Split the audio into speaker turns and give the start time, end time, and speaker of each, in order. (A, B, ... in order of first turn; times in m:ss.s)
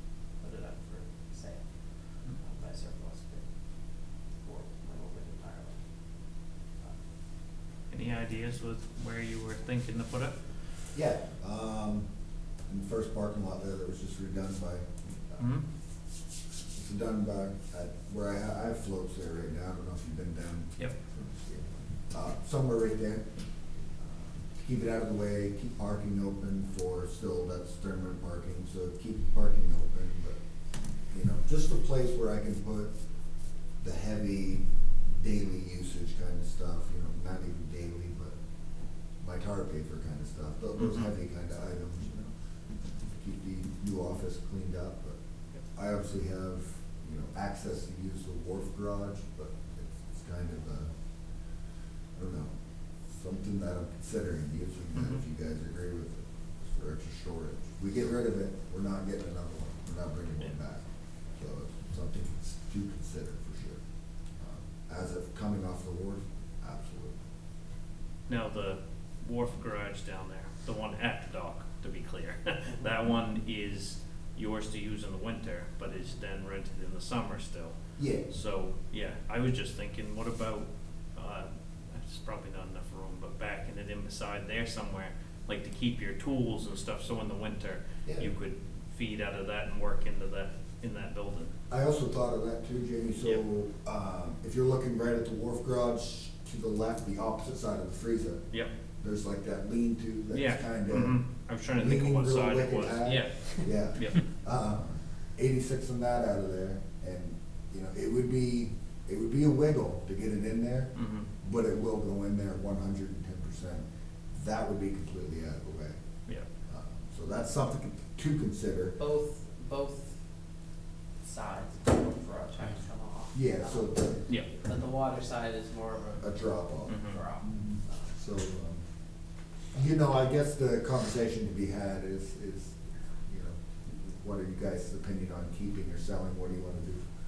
0:00.3-0:05.8 A
0:07.9-0:10.4 B
0:10.9-0:12.0 C
0:12.7-0:15.5 C
0:15.4-0:15.6 B
0:16.7-0:23.2 C
0:24.0-0:30.4 C
0:31.1-0:32.9 C
0:33.8-0:38.3 C
0:39.2-0:42.3 C
0:40.8-0:41.0 B
0:43.1-0:45.2 C
0:45.7-0:50.9 C
0:52.2-0:52.5 C
0:53.1-1:00.8 C
1:01.4-1:03.8 C
1:04.4-1:07.2 C
1:08.3-1:31.5 B
1:18.0-1:18.3 C
1:31.7-1:38.5 C
1:39.0-1:41.2 C
1:40.3-1:43.3 B
1:41.7-1:56.0 C
1:43.9-1:44.2 B
1:50.9-1:51.3 B
1:56.7-1:59.0 C
1:59.0-2:00.2 A
2:01.2-2:06.4 A
2:03.3-2:04.2 C
2:06.2-2:08.8 C
2:06.9-2:07.2 B
2:06.9-2:08.1 A
2:09.7-2:17.0 C